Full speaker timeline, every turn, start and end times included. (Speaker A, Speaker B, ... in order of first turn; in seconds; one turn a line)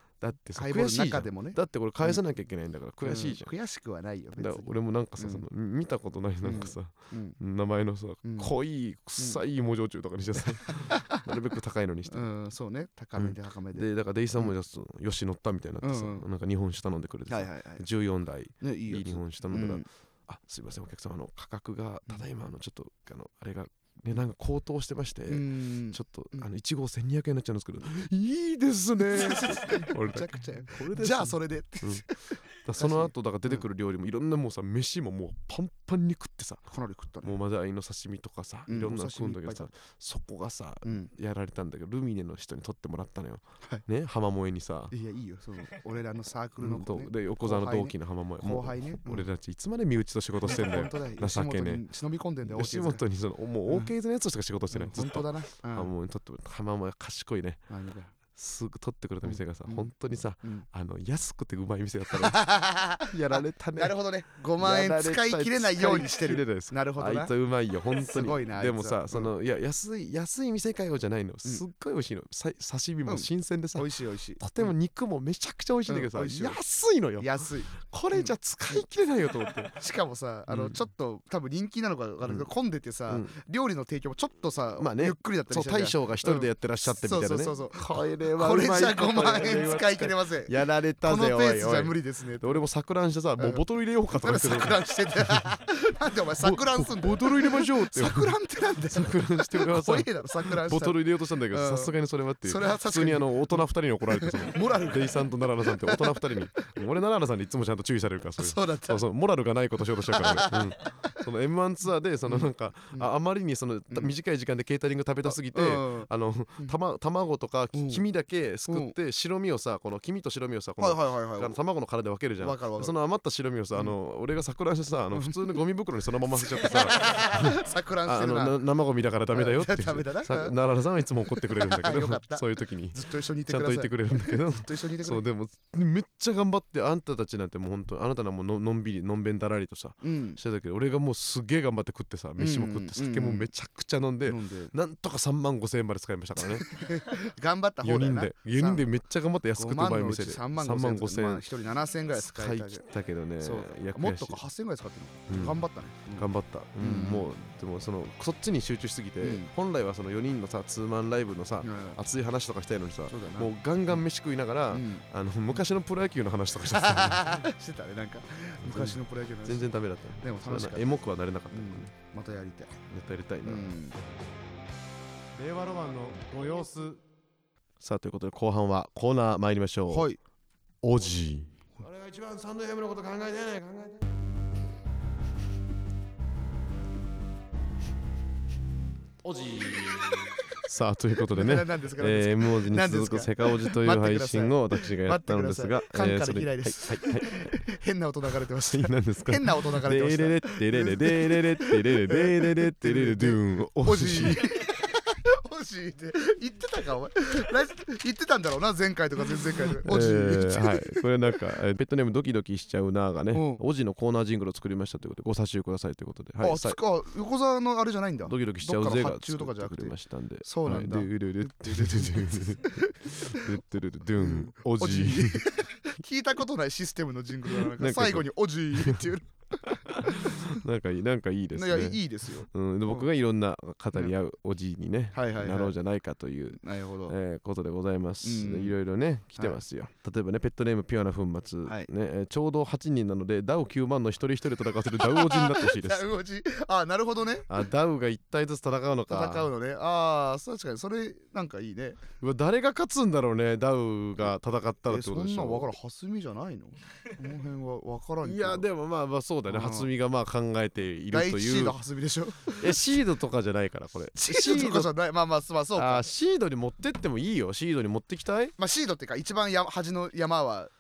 Speaker A: 0.2-3.5
Speaker B: 0.6-2.2
Speaker B: 3.0-5.5
Speaker A: 4.4-12.3
Speaker B: 6.4-7.4
Speaker B: 8.2-8.5
Speaker B: 10.7-11.2
Speaker B: 12.1-14.5
Speaker A: 13.2-36.7
Speaker B: 15.8-16.3
Speaker B: 17.3-17.9
Speaker B: 18.6-19.9
Speaker B: 25.3-26.5
Speaker B: 29.0-33.6
Speaker B: 36.7-37.4
Speaker A: 37.2-44.9
Speaker B: 38.7-39.7
Speaker B: 40.9-41.1
Speaker B: 44.9-49.3
Speaker A: 46.6-51.8
Speaker B: 50.4-53.0
Speaker A: 52.5-57.6
Speaker B: 54.7-55.9
Speaker B: 57.7-58.1
Speaker A: 58.3-62.5
Speaker B: 59.2-59.9
Speaker B: 62.1-67.3
Speaker A: 63.0-64.0
Speaker A: 64.6-79.8
Speaker B: 68.0-69.3
Speaker B: 73.1-74.7
Speaker B: 75.9-76.6
Speaker B: 77.2-78.8
Speaker B: 79.8-92.6
Speaker A: 80.5-80.8
Speaker A: 84.8-95.5
Speaker B: 93.4-106.3
Speaker A: 96.3-146.8
Speaker B: 108.4-109.0
Speaker B: 110.1-111.2
Speaker B: 112.3-113.1
Speaker B: 115.2-116.7
Speaker B: 117.7-118.0
Speaker B: 118.7-119.0
Speaker B: 120.8-121.6
Speaker B: 122.4-122.9
Speaker B: 125.1-125.6
Speaker B: 126.3-128.6
Speaker B: 129.3-130.6
Speaker B: 131.3-135.2
Speaker B: 140.0-140.4
Speaker B: 142.4-143.5
Speaker B: 144.3-144.7
Speaker B: 146.4-148.9
Speaker A: 147.8-151.4
Speaker B: 149.6-152.8
Speaker A: 152.2-154.4
Speaker B: 153.4-156.3
Speaker A: 155.3-167.4
Speaker B: 156.8-157.3
Speaker B: 159.2-159.5
Speaker B: 161.6-162.0
Speaker B: 163.1-164.0
Speaker B: 164.7-165.6
Speaker B: 166.7-171.0
Speaker A: 168.6-171.9
Speaker B: 171.5-172.8
Speaker A: 172.9-173.7
Speaker B: 173.4-174.0
Speaker A: 175.4-177.0
Speaker A: 177.8-180.1
Speaker B: 179.9-180.2
Speaker A: 180.8-184.1
Speaker A: 189.2-197.6
Speaker B: 191.3-211.1
Speaker A: 198.7-204.4
Speaker A: 209.8-216.8
Speaker B: 213.3-213.6
Speaker B: 216.4-223.6
Speaker A: 218.2-225.5
Speaker B: 224.2-230.6
Speaker A: 227.6-229.1
Speaker A: 229.6-246.1
Speaker B: 231.5-233.1
Speaker B: 235.1-235.8
Speaker B: 236.6-237.2
Speaker B: 238.2-238.8
Speaker B: 245.0-247.5
Speaker A: 247.5-249.5
Speaker B: 249.1-252.0
Speaker A: 252.2-255.7
Speaker B: 254.9-258.7
Speaker A: 258.2-261.8
Speaker B: 259.5-259.9
Speaker B: 261.1-262.9
Speaker A: 262.6-264.9
Speaker B: 264.1-266.1
Speaker A: 265.8-268.5
Speaker B: 268.6-270.7